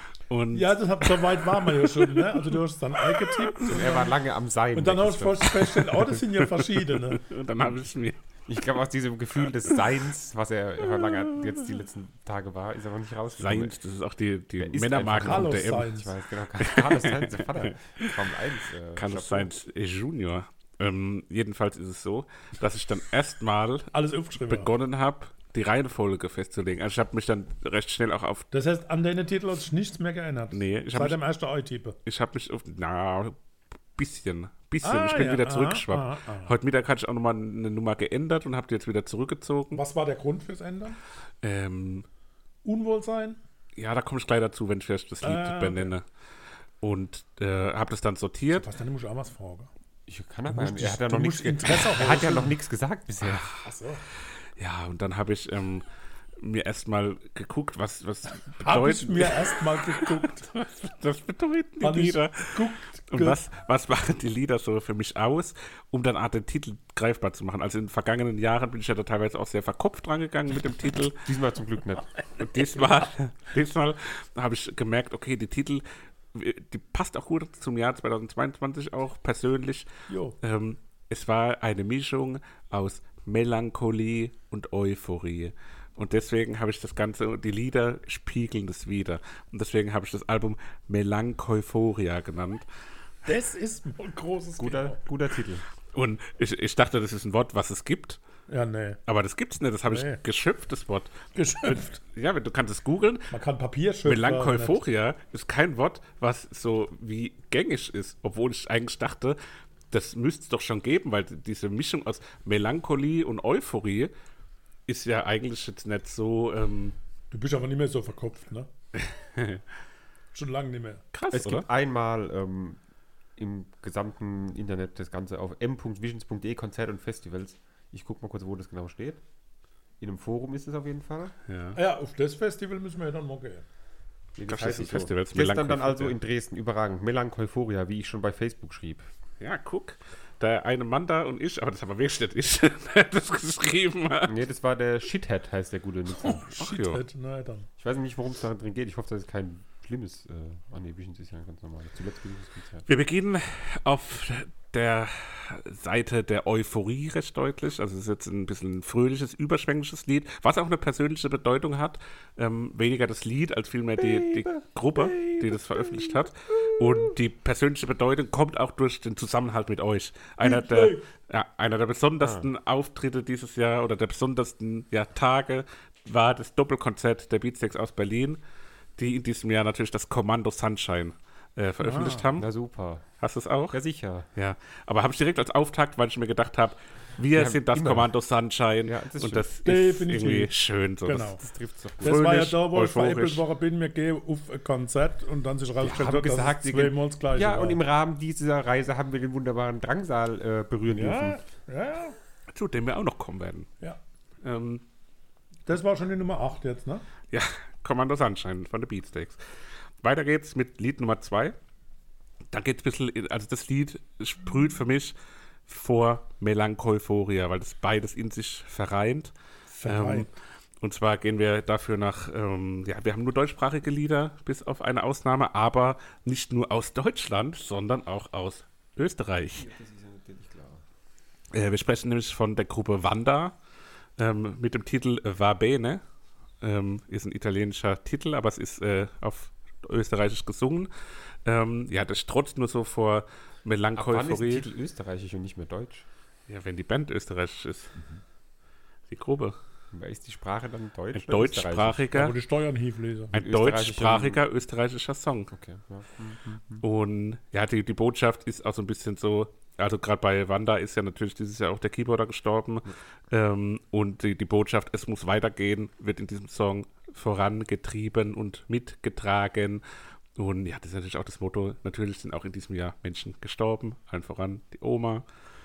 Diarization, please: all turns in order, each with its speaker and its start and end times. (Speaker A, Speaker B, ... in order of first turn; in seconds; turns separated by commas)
Speaker A: 0.3-2.6, Speaker B: 0.5-4.1, Speaker A: 3.1-3.5, Speaker C: 3.7-5.5, Speaker B: 4.7-7.2, Speaker A: 5.8-8.2, Speaker C: 8.5-13.8, Speaker A: 13.4-15.9, Speaker C: 14.6-19.5, Speaker B: 15.2-16.1, Speaker A: 16.6-18.1, Speaker A: 19.0-28.5, Speaker B: 23.9-24.7, Speaker B: 28.5-32.0, Speaker A: 30.5-31.2, Speaker A: 32.1-33.4, Speaker A: 34.0-39.8, Speaker B: 34.8-36.5, Speaker B: 39.7-41.0, Speaker A: 41.4-42.1, Speaker B: 42.6-43.4, Speaker A: 43.8-46.0, Speaker B: 45.2-45.9, Speaker A: 46.8-48.7, Speaker B: 48.5-49.7, Speaker C: 50.1-53.5, Speaker B: 50.5-52.5, Speaker A: 53.2-53.5, Speaker B: 53.6-54.0, Speaker A: 54.6-55.9, Speaker A: 56.4-71.2, Speaker B: 58.6-60.5, Speaker B: 61.8-63.4, Speaker C: 71.2-72.1, Speaker A: 72.4-75.8, Speaker A: 76.3-79.9, Speaker B: 80.1-80.4, Speaker A: 80.4-92.7, Speaker B: 93.2-95.0, Speaker C: 94.6-95.7, Speaker A: 95.9-98.2, Speaker B: 98.5-99.0, Speaker A: 99.1-103.3, Speaker B: 99.9-100.2, Speaker B: 101.3-102.0, Speaker B: 103.3-104.8, Speaker A: 104.0-109.4, Speaker A: 109.9-114.1, Speaker A: 114.9-117.0, Speaker B: 117.3-118.7, Speaker A: 119.0-119.6, Speaker B: 120.3-121.0, Speaker A: 121.1-121.7, Speaker C: 121.3-122.8, Speaker C: 123.4-129.2, Speaker C: 130.0-131.3, Speaker A: 131.5-131.8, Speaker B: 131.8-133.7, Speaker C: 134.4-139.1, Speaker A: 134.4-136.2, Speaker A: 139.4-144.4, Speaker C: 144.3-146.4, Speaker B: 146.2-147.7, Speaker A: 146.5-147.0, Speaker C: 147.8-152.9, Speaker A: 152.9-178.4, Speaker C: 164.0-166.2, Speaker B: 170.4-171.1, Speaker C: 172.2-172.5, Speaker A: 179.0-182.5, Speaker B: 181.8-182.3, Speaker C: 182.3-183.1, Speaker A: 183.2-183.8, Speaker C: 183.7-184.3, Speaker A: 184.3-191.4, Speaker C: 187.3-188.1, Speaker C: 188.8-189.5, Speaker B: 189.7-190.5, Speaker B: 191.1-191.4, Speaker C: 191.4-192.2, Speaker A: 192.0-193.4, Speaker B: 192.0-197.8, Speaker C: 195.8-201.4, Speaker B: 200.9-202.2, Speaker A: 202.5-203.7, Speaker A: 204.4-204.8, Speaker B: 205.7-207.1, Speaker A: 207.3-209.4, Speaker A: 210.0-211.6, Speaker A: 212.5-215.2, Speaker A: 215.7-219.3, Speaker B: 219.7-220.3, Speaker A: 219.8-220.3, Speaker A: 220.8-229.7, Speaker C: 229.6-230.8, Speaker A: 231.5-233.5, Speaker A: 234.2-236.0, Speaker A: 236.6-240.9, Speaker A: 241.4-244.7, Speaker C: 243.9-246.1, Speaker A: 246.5-247.9, Speaker A: 249.1-249.6, Speaker C: 249.9-252.1, Speaker A: 251.1-252.4, Speaker B: 252.1-253.3, Speaker A: 253.3-255.5, Speaker C: 253.3-254.4, Speaker C: 255.5-256.8, Speaker A: 256.8-269.8, Speaker A: 270.4-275.2